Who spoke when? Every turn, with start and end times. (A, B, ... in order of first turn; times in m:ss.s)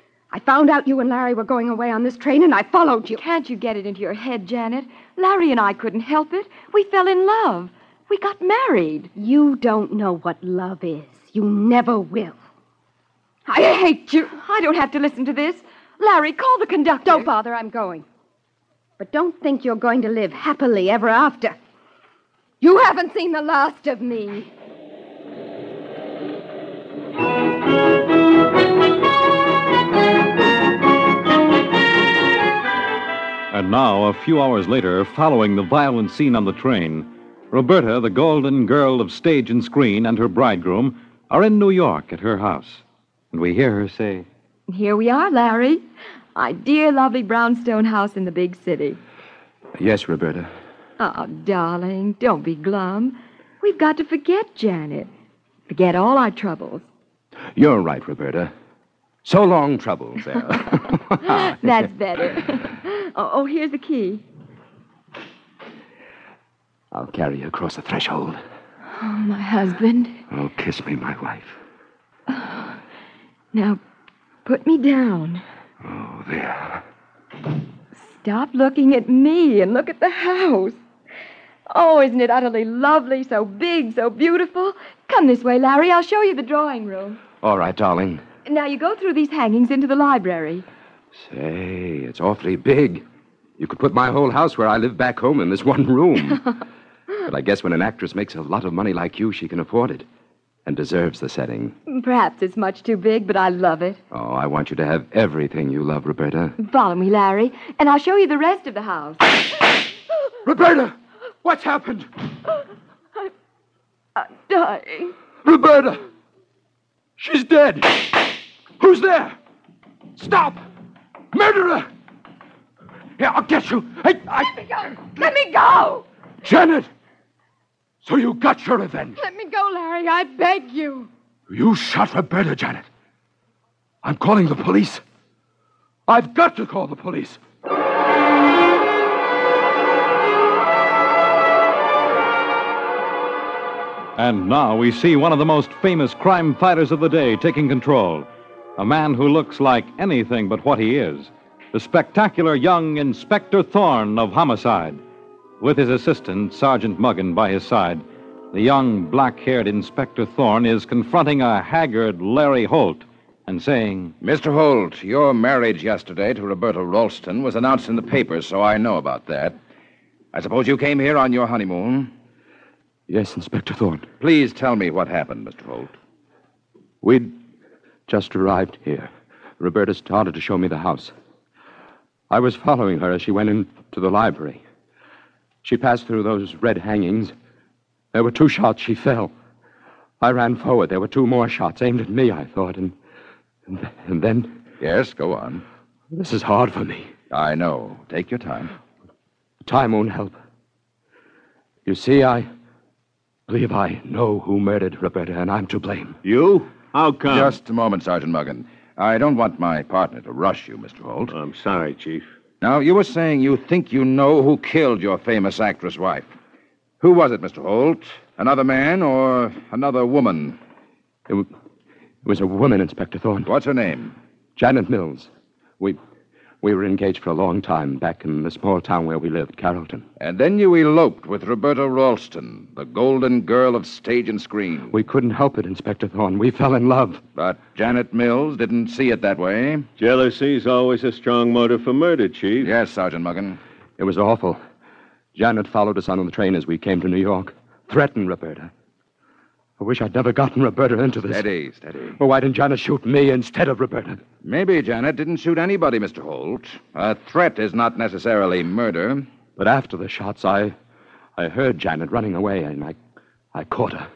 0:00.3-0:03.2 A
0:03.2-0:09.1 B
0:09.2-0:12.4 A
0:13.5-0:14.3 A
0:14.3-0:17.3 B
0:17.0-0:18.1 A
0:19.0-0:21.6 A
0:22.6-0:24.5 A
0:33.5-0:44.3 C
0:44.7-0:45.8 B
0:46.4-0:49.0 B
0:49.8-0:50.5 D
0:51.0-0:55.1 B
0:55.7-0:56.9 B
0:57.6-0:58.5 D
0:59.2-1:01.8 D
1:01.2-1:04.2 B
1:06.9-1:08.4 D
1:09.0-1:10.2 B
1:10.3-1:11.6 D
1:12.3-1:12.8 B
1:13.5-1:13.8 B
1:14.4-1:15.4 B
1:15.8-1:16.8 D
1:18.0-1:20.8 B
1:21.7-1:27.2 B
1:27.4-1:28.2 D
1:28.4-1:30.6 B
1:31.2-1:33.0 D
1:33.6-1:36.5 D
1:37.2-1:40.1 D
1:40.7-1:41.8 D
1:41.9-1:44.0 B
1:44.1-1:46.6 D
1:46.6-1:49.3 B
1:50.4-1:52.1 D
1:54.2-1:55.2 B
1:55.4-1:56.0 D
1:57.2-1:59.4 D
2:00.2-2:00.6 D
2:01.3-2:01.9 D
2:03.2-2:05.3 D
2:04.9-2:06.0 A
2:06.4-2:06.9 D
2:08.0-2:09.2 D
2:09.2-2:11.1 A
2:11.5-2:12.9 D
2:14.0-2:15.0 D
2:16.1-2:17.4 D
2:24.2-2:28.3 C
2:28.8-2:35.0 C
2:35.6-2:44.1 C
2:44.2-2:49.6 E
2:50.3-2:52.1 E
2:53.1-2:54.1 D
2:54.2-2:55.9 E
2:57.0-2:57.3 D
2:58.1-3:01.1 D
3:02.3-3:04.6 D
3:05.6-3:07.3 D
3:08.1-3:09.3 D
3:10.2-3:13.0 D
3:13.7-3:14.6 D
3:14.8-3:15.6 E
3:16.1-3:17.1 D
3:17.3-3:18.7 E
3:19.6-3:20.4 D
3:21.9-3:22.5 D
3:23.5-3:26.2 D
3:26.2-3:27.6 F
3:27.3-3:31.3 E
3:31.3-3:32.2 F
3:32.6-3:36.2 E
3:37.0-3:40.6 E
3:42.2-3:43.5 D
3:43.5-3:44.2 E
3:44.6-3:46.0 D
3:46.6-3:50.1 D
3:50.2-3:54.9 E
3:54.9-3:57.2 D
3:57.4-3:59.9 E
4:00.0-4:02.7 F
4:02.6-4:03.6 E
4:04.0-4:04.6 D
4:05.4-4:08.7 D
4:09.8-4:11.4 D
4:11.3-4:12.2 E
4:12.2-4:14.2 D
4:14.4-4:19.3 E
4:19.6-4:20.8 D
4:21.4-4:23.0 D
4:23.5-4:24.1 D